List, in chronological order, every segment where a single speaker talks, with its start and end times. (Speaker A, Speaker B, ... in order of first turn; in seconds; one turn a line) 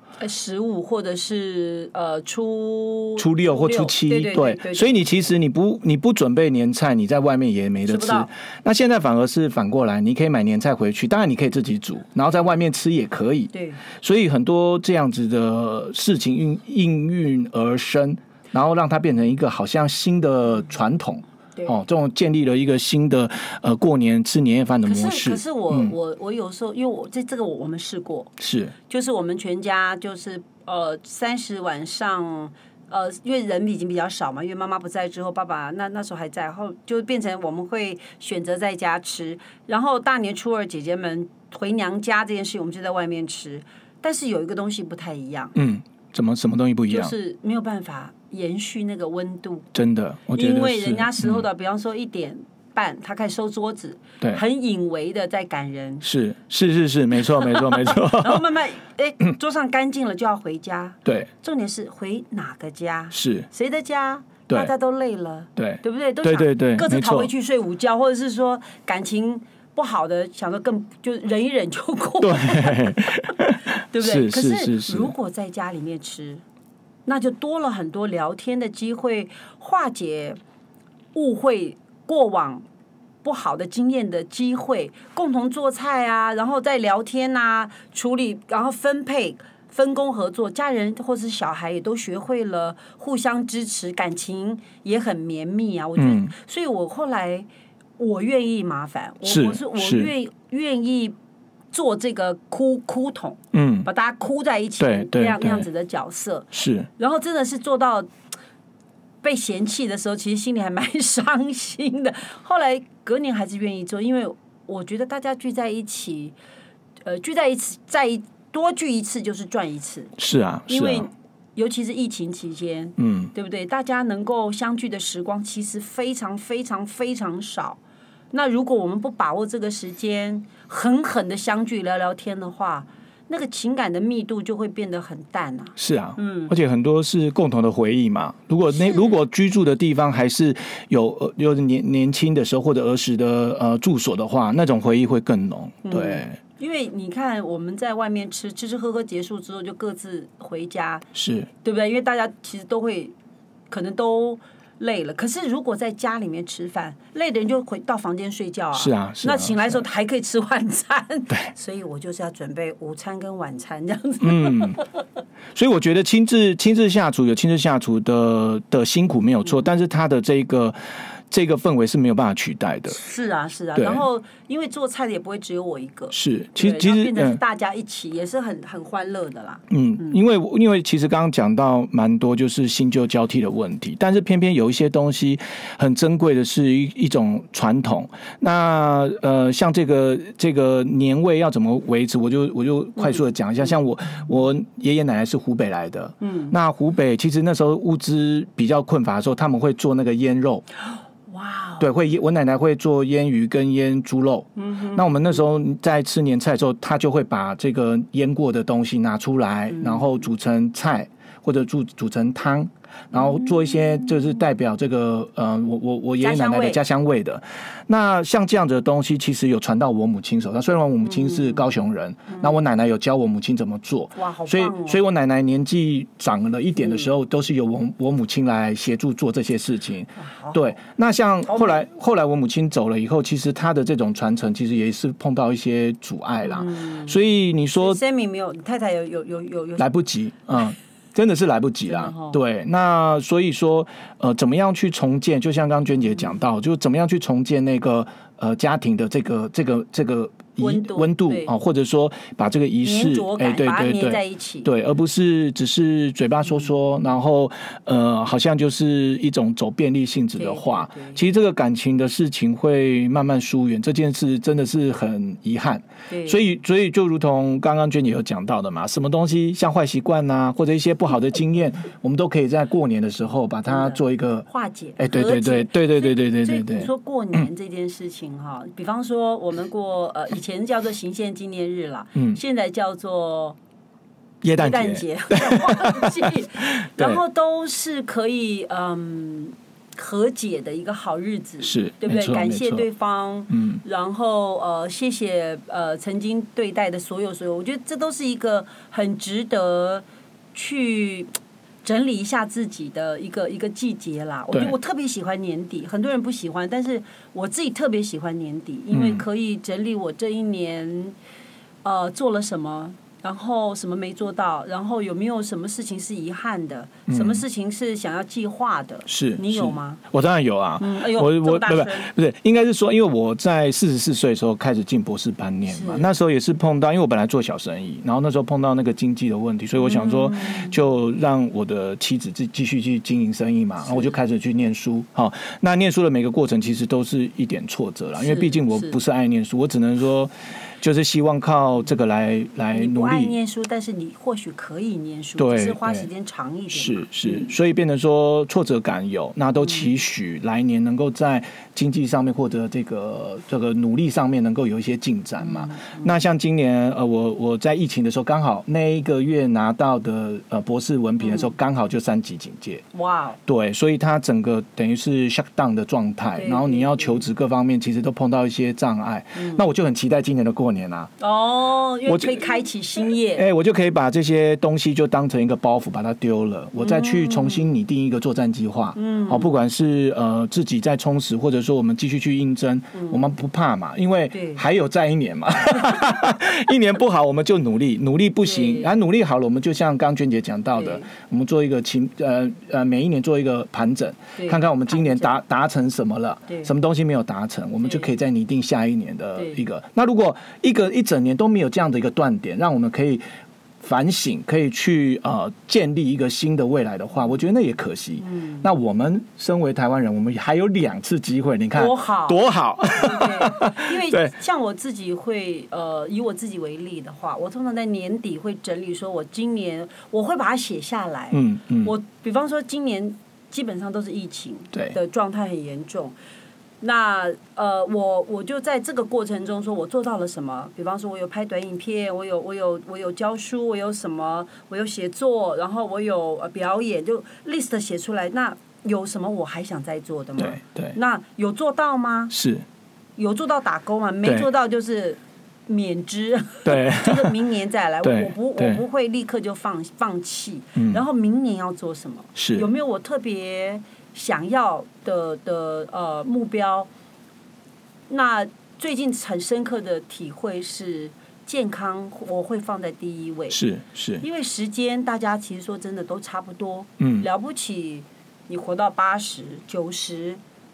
Speaker A: 0.2-5.3
Speaker B: 3.2-25.9
Speaker A: 7.9-8.3
Speaker A: 13.5-13.8
Speaker A: 24.9-28.3
Speaker B: 28.4-28.7
Speaker A: 28.9-45.5
Speaker B: 45.5-47.1
Speaker A: 46.9-49.7
Speaker B: 49.7-51.4
Speaker A: 50.3-56.0
Speaker B: 56.0-58.4
Speaker A: 57.3-72.9
Speaker B: 63.1-63.5
Speaker B: 65.6-67.3
Speaker B: 72.2-75.1
Speaker A: 73.7-76.4
Speaker A: 77.0-80.4
Speaker A: 81.1-82.6
Speaker A: 83.2-97.5
Speaker B: 96.0-96.3
Speaker A: 98.0-101.2
Speaker B: 99.2-100.1
Speaker A: 101.7-108.1
Speaker B: 103.5-103.9
Speaker B: 104.8-105.7
Speaker B: 106.5-106.9
Speaker A: 109.2-116.3
Speaker A: 117.0-120.1
Speaker B: 120.2-121.1
Speaker A: 120.7-127.8
Speaker B: 123.0-123.3
Speaker A: 128.3-136.5
Speaker B: 135.8-146.4
Speaker A: 138.7-139.2
Speaker A: 145.8-151.0
Speaker B: 151.1-151.5
Speaker A: 151.6-153.1
Speaker A: 153.7-164.8
Speaker B: 158.7-159.8
Speaker B: 164.2-164.8
Speaker B: 165.5-173.0
Speaker A: 172.9-180.2
Speaker B: 173.7-174.0
Speaker B: 176.1-177.4
Speaker B: 179.7-200.6
Speaker A: 196.2-196.5
Speaker A: 201.3-201.8
Speaker B: 201.8-238.0
Speaker A: 204.6-205.0
Speaker A: 209.7-210.1
Speaker A: 216.2-216.8
Speaker A: 221.2-221.6
Speaker A: 224.2-225.0
Speaker A: 230.2-230.6
Speaker A: 231.5-231.8
Speaker A: 236.4-237.2
Speaker A: 237.8-239.9
Speaker B: 239.8-277.4
Speaker A: 241.9-242.4
Speaker A: 250.6-251.5
Speaker A: 252.8-254.7
Speaker A: 260.4-261.2
Speaker A: 266.1-266.4
Speaker A: 273.7-283.6
Speaker B: 282.1-282.4
Speaker B: 284.4-287.2
Speaker A: 284.6-301.3
Speaker B: 291.6-292.9
Speaker B: 293.5-293.8
Speaker A: 301.8-311.1
Speaker B: 308.9-309.2
Speaker A: 311.8-320.0
Speaker B: 317.1-317.4
Speaker B: 319.1-343.3
Speaker A: 320.8-322.1
Speaker A: 325.7-326.1
Speaker A: 329.8-330.8
Speaker A: 333.9-334.1
Speaker A: 338.2-338.9
Speaker A: 342.7-347.5
Speaker B: 345.4-346.1
Speaker B: 346.7-362.8
Speaker A: 355.4-356.1
Speaker A: 361.2-361.5
Speaker A: 362.9-363.4
Speaker B: 363.4-371.1
Speaker A: 366.4-367.2
Speaker A: 369.4-369.6
Speaker A: 371.2-373.4
Speaker B: 372.1-372.5
Speaker B: 373.3-403.2
Speaker A: 376.8-377.7
Speaker A: 378.9-379.5
Speaker A: 382.9-383.2
Speaker A: 384.3-384.6
Speaker A: 388.4-388.9
Speaker A: 390.7-391.1
Speaker A: 394.4-395.4
Speaker A: 397.8-398.1
Speaker B: 403.8-414.3
Speaker A: 408.2-408.6
Speaker A: 411.7-426.1
Speaker B: 421.3-421.9
Speaker A: 426.8-442.3
Speaker B: 440.4-440.9
Speaker B: 442.3-442.6
Speaker A: 443.2-456.9
Speaker B: 444.2-444.5
Speaker B: 446.6-447.4
Speaker B: 448.0-448.8
Speaker B: 450.7-451.0
Speaker B: 452.4-452.6
Speaker A: 458.1-463.6
Speaker B: 463.5-464.2
Speaker A: 464.2-470.4
Speaker B: 467.0-467.3